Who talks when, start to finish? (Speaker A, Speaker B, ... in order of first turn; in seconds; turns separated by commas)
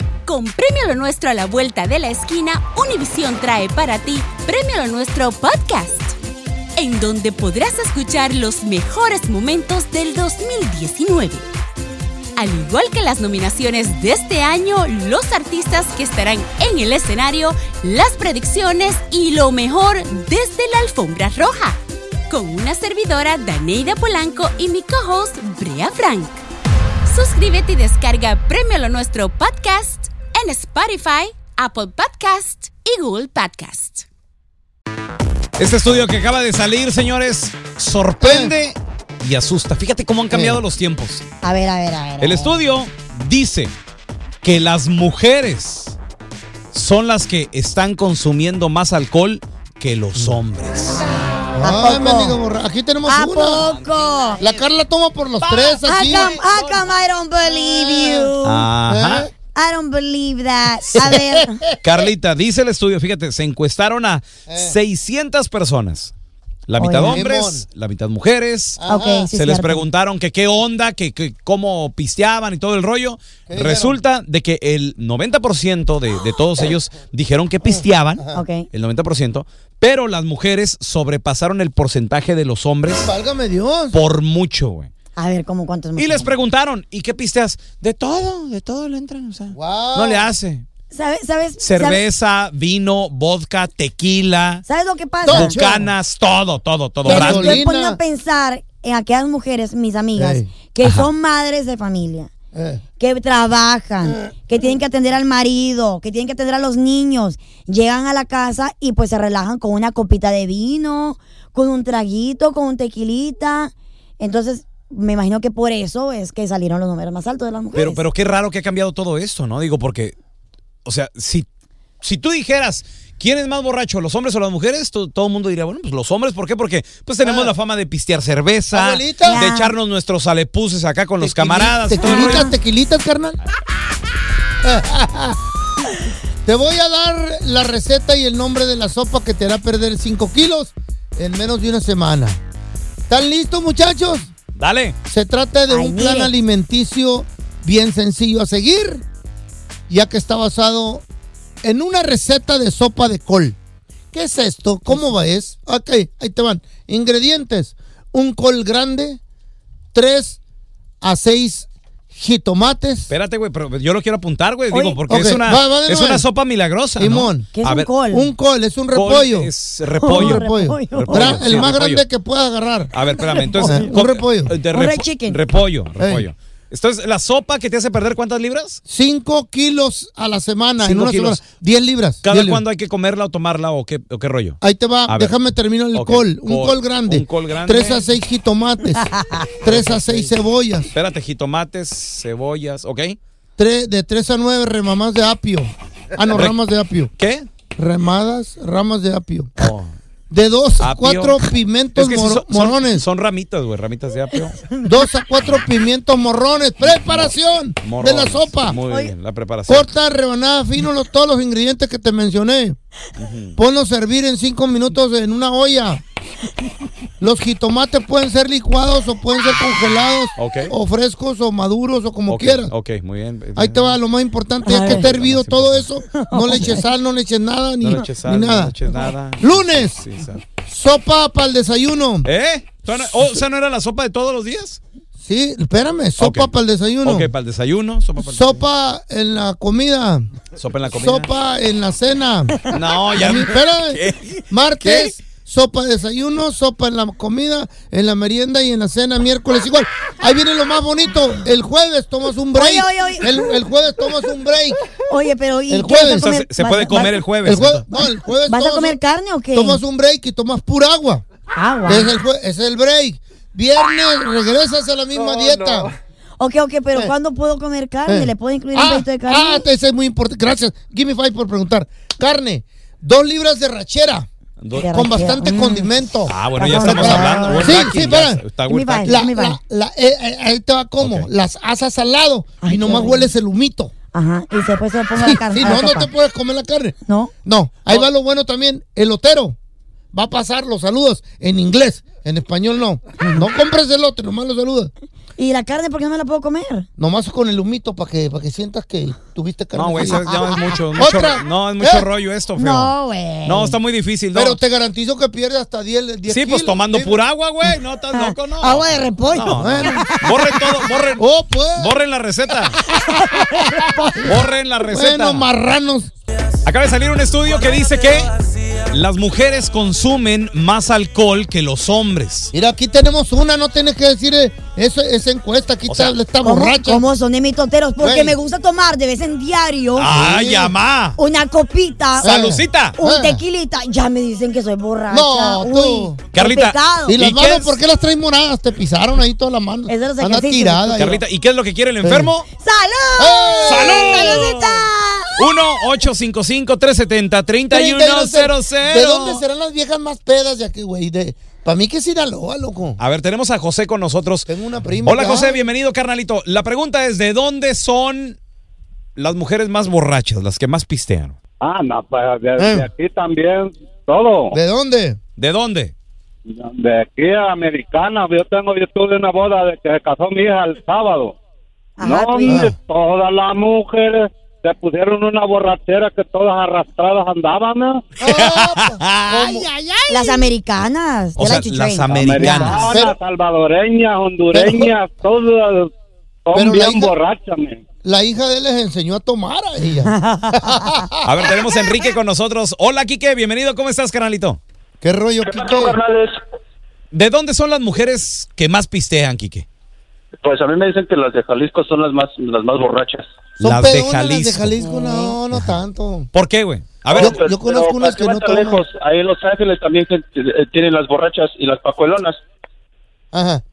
Speaker A: 0.3-6.2, Speaker A: 6.8-11.4, Speaker A: 12.4-21.8, Speaker A: 22.3-26.4, Speaker A: 27.1-34.1, Speaker B: 35.6-41.2, Speaker C: 38.2-38.5, Speaker C: 40.3-40.6, Speaker D: 41.4-42.6, Speaker B: 42.2-43.7, Speaker B: 44.4-46.0, Speaker B: 46.7-51.1, Speaker C: 51.6-53.6, Speaker D: 51.6-52.4, Speaker D: 53.1-54.4, Speaker C: 54.4-56.4, Speaker B: 55.4-56.9, Speaker D: 55.8-58.7, Speaker C: 57.4-58.3, Speaker B: 58.4-59.3, Speaker C: 58.9-59.3, Speaker D: 59.5-61.6, Speaker C: 60.9-62.0, Speaker B: 61.8-66.1, Speaker C: 64.5-64.8, Speaker B: 66.7-68.8, Speaker D: 66.8-67.2, Speaker C: 67.0-67.7, Speaker C: 68.8-69.3, Speaker D: 68.9-69.8, Speaker B: 69.3-83.1, Speaker C: 73.5-74.0, Speaker C: 77.7-78.4, Speaker D: 78.3-78.7, Speaker C: 83.0-84.0, Speaker B: 83.9-84.9, Speaker D: 85.2-86.3, Speaker B: 86.0-90.7, Speaker C: 89.5-90.2, Speaker D: 90.9-92.0, Speaker B: 91.6-94.7, Speaker D: 94.7-95.5, Speaker C: 95.2-95.9, Speaker B: 95.3-97.6, Speaker C: 97.0-98.0, Speaker D: 97.0-102.3, Speaker C: 100.2-100.5, Speaker C: 102.5-102.8, Speaker D: 103.0-118.0, Speaker B: 117.7-120.2, Speaker B: 120.8-121.5, Speaker B: 122.0-132.5, Speaker C: 127.2-127.5, Speaker C: 128.7-129.4, Speaker D: 129.2-129.7, Speaker C: 131.2-133.4, Speaker D: 131.9-132.5, Speaker C: 134.6-135.4, Speaker C: 136.4-142.4, Speaker C: 143.1-144.3, Speaker B: 144.6-144.9, Speaker C: 145.1-149.0, Speaker D: 145.7-146.3, Speaker C: 149.9-151.1, Speaker C: 151.6-153.6, Speaker C: 154.1-159.2, Speaker C: 159.9-160.4, Speaker C: 161.0-163.1, Speaker B: 163.1-167.9, Speaker D: 164.7-165.0, Speaker C: 165.1-166.3, Speaker C: 167.0-167.5, Speaker D: 167.5-168.3, Speaker C: 168.1-169.5, Speaker B: 168.9-172.1, Speaker D: 170.0-171.7, Speaker C: 170.1-172.9, Speaker B: 172.9-178.8, Speaker D: 173.3-173.9, Speaker C: 173.6-174.6, Speaker D: 174.7-175.4, Speaker C: 176.0-176.3, Speaker C: 178.9-182.6, Speaker B: 180.8-181.4, Speaker B: 182.2-185.4, Speaker C: 184.6-190.9, Speaker B: 185.9-188.1, Speaker B: 189.7-190.3, Speaker B: 190.9-193.2, Speaker C: 193.6-197.1, Speaker B: 196.3-196.6, Speaker B: 197.2-197.5, Speaker C: 197.8-199.7, Speaker B: 199.6-199.9, Speaker C: 200.3-203.1, Speaker B: 200.8-204.6, Speaker D: 204.6-205.0, Speaker C: 204.8-208.8, Speaker B: 206.8-209.9, Speaker D: 208.8-209.1, Speaker C: 209.7-212.8, Speaker B: 213.2-213.6, Speaker C: 213.6-216.0, Speaker C: 217.2-222.7, Speaker B: 220.4-220.7, Speaker B: 222.3-224.0, Speaker C: 223.6-228.8, Speaker D: 224.6-225.1, Speaker B: 224.7-225.9, Speaker D: 226.1-226.9, Speaker B: 227.8-230.4, Speaker C: 229.4-230.1, Speaker C: 230.6-232.3, Speaker B: 232.2-234.8, Speaker C: 235.2-237.3, Speaker B: 236.2-236.5, Speaker B: 237.0-238.6, Speaker C: 238.2-240.3, Speaker B: 240.6-241.3, Speaker C: 240.9-254.8, Speaker B: 242.7-245.2, Speaker D: 252.6-253.4, Speaker D: 255.1-257.2, Speaker C: 255.7-256.3, Speaker B: 256.1-257.8, Speaker C: 257.4-259.0, Speaker D: 258.5-259.8, Speaker C: 259.5-261.2, Speaker D: 261.6-262.1, Speaker C: 261.9-265.9, Speaker D: 266.4-269.6, Speaker C: 268.1-274.3, Speaker B: 274.6-275.1, Speaker D: 274.7-275.9, Speaker C: 274.9-278.4, Speaker B: 276.3-279.2, Speaker D: 276.6-277.9, Speaker D: 278.7-279.6, Speaker C: 279.1-283.9, Speaker B: 281.0-281.3, Speaker D: 282.6-283.3, Speaker D: 284.1-286.1, Speaker C: 285.2-289.6, Speaker D: 287.1-287.3, Speaker C: 290.1-294.9, Speaker D: 295.4-296.9, Speaker C: 297.0-302.1, Speaker B: 299.7-304.6, Speaker D: 300.1-300.5, Speaker D: 302.6-303.8, Speaker C: 304.3-307.2, Speaker B: 306.3-312.8, Speaker D: 308.1-310.6, Speaker C: 309.5-310.1, Speaker C: 311.2-311.9, Speaker D: 312.8-314.3, Speaker C: 313.4-314.3, Speaker B: 314.2-315.5, Speaker C: 314.9-316.1, Speaker B: 316.6-318.3, Speaker B: 318.9-322.5, Speaker C: 322.5-327.0, Speaker B: 325.9-326.2, Speaker D: 326.4-330.1, Speaker C: 328.0-328.4, Speaker B: 329.9-331.2, Speaker C: 330.1-330.8, Speaker D: 331.2-332.4, Speaker B: 332.2-333.0, Speaker C: 332.2-333.4, Speaker D: 332.9-337.1, Speaker C: 335.1-336.2, Speaker B: 336.3-337.8, Speaker C: 337.1-341.2, Speaker D: 339.9-341.2, Speaker B: 341.0-342.5, Speaker C: 342.0-342.3, Speaker D: 342.6-345.5, Speaker C: 343.2-344.4, Speaker B: 343.6-349.4, Speaker C: 347.7-353.0, Speaker B: 353.0-354.5, Speaker C: 354.5-355.7, Speaker B: 355.1-358.4, Speaker B: 359.2-361.4, Speaker E: 361.6-364.5, Speaker C: 362.6-362.9, Speaker C: 364.5-365.2, Speaker B: 365.4-365.9, Speaker E: 366.5-371.4, Speaker D: 372.0-372.7, Speaker E: 372.0-378.0, Speaker C: 372.5-372.7, Speaker C: 378.2-379.7, Speaker B: 378.3-380.5, Speaker D: 380.1-383.0, Speaker B: 381.4-382.9, Speaker E: 382.1-385.9, Speaker C: 382.9-383.2, Speaker C: 384.5-384.9, Speaker E: 386.5-387.8, Speaker C: 386.5-387.1, Speaker C: 388.0-391.5, Speaker D: 390.1-390.9, Speaker B: 391.2-394.6, Speaker C: 395.0-396.0, Speaker F: 395.4-396.4, Speaker B: 397.1-399.7, Speaker F: 400.4-403.3, Speaker B: 403.6-404.7, Speaker C: 403.6-406.3, Speaker D: 404.8-405.4, Speaker B: 406.3-407.4, Speaker C: 407.2-408.8, Speaker F: 407.2-412.4, Speaker C: 413.3-413.6